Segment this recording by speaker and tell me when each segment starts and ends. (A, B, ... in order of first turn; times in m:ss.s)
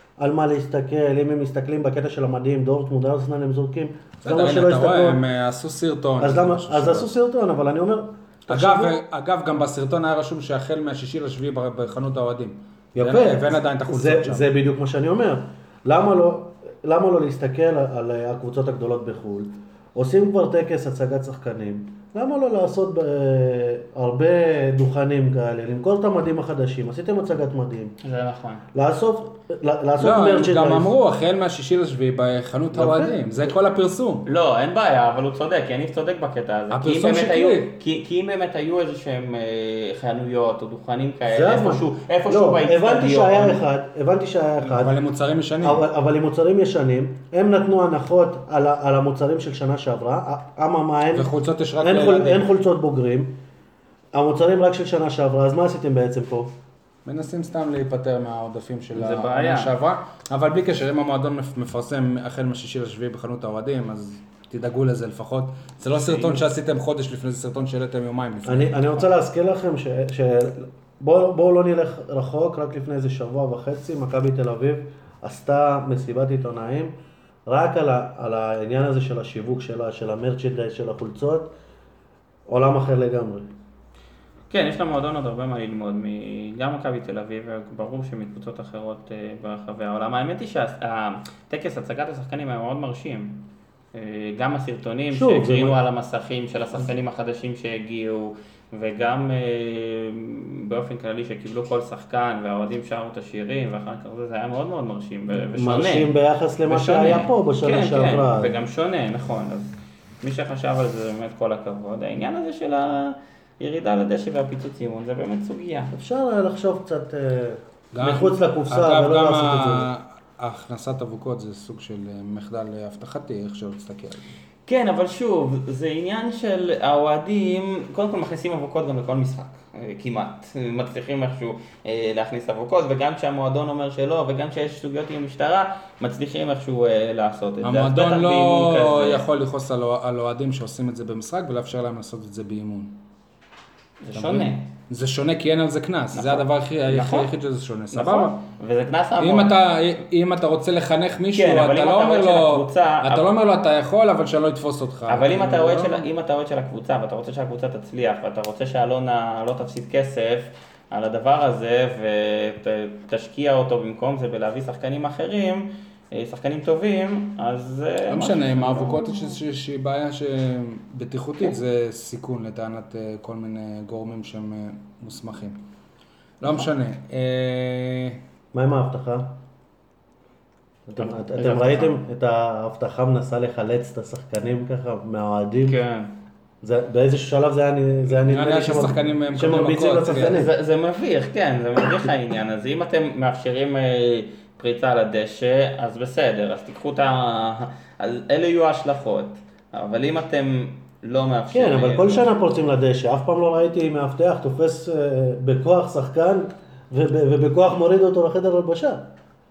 0:00.2-0:05.2 A
0:04.2-0:07.1 B
0:06.2-0:09.0 A
0:08.5-0:14.5 B
0:12.9-0:28.0 A
0:28.0-0:28.6 C
0:28.7-0:30.9 A
0:30.0-0:34.3 B
0:32.7-0:33.5 A
0:34.2-0:43.6 C
0:36.7-0:37.7 B
0:41.3-0:45.0 A
0:44.6-0:45.8 B
0:45.6-0:51.3 A
0:51.1-0:52.5 B
0:51.8-0:53.4 A
0:54.1-0:56.6 A
0:57.0-1:09.1 B
0:58.9-0:59.7 C
1:05.9-1:06.4 C
1:08.4-1:16.9 A
1:17.4-1:21.5 A
1:22.5-1:23.5 A
1:24.5-1:46.1 C
1:35.1-1:35.8 A
1:45.3-1:48.5 A
1:46.6-1:55.9 C
1:55.9-1:59.9 A
1:57.9-2:04.3 B
2:04.6-2:19.2 C
2:17.6-2:23.0 B
2:24.0-2:24.7 C
2:24.1-2:28.4 B
2:26.1-2:27.3 C
2:27.9-2:29.6 C
2:29.2-2:36.0 B
2:31.3-2:33.2 C
2:35.1-2:49.4 C
2:48.1-2:55.6 B
2:56.4-2:58.2 B
2:58.5-2:59.4 A
3:00.9-3:05.8 A
3:01.0-3:02.0 C
3:05.6-3:06.1 C
3:06.6-3:10.5 A
3:08.2-3:10.4 B
3:10.1-3:22.3 C
3:21.5-3:29.1 A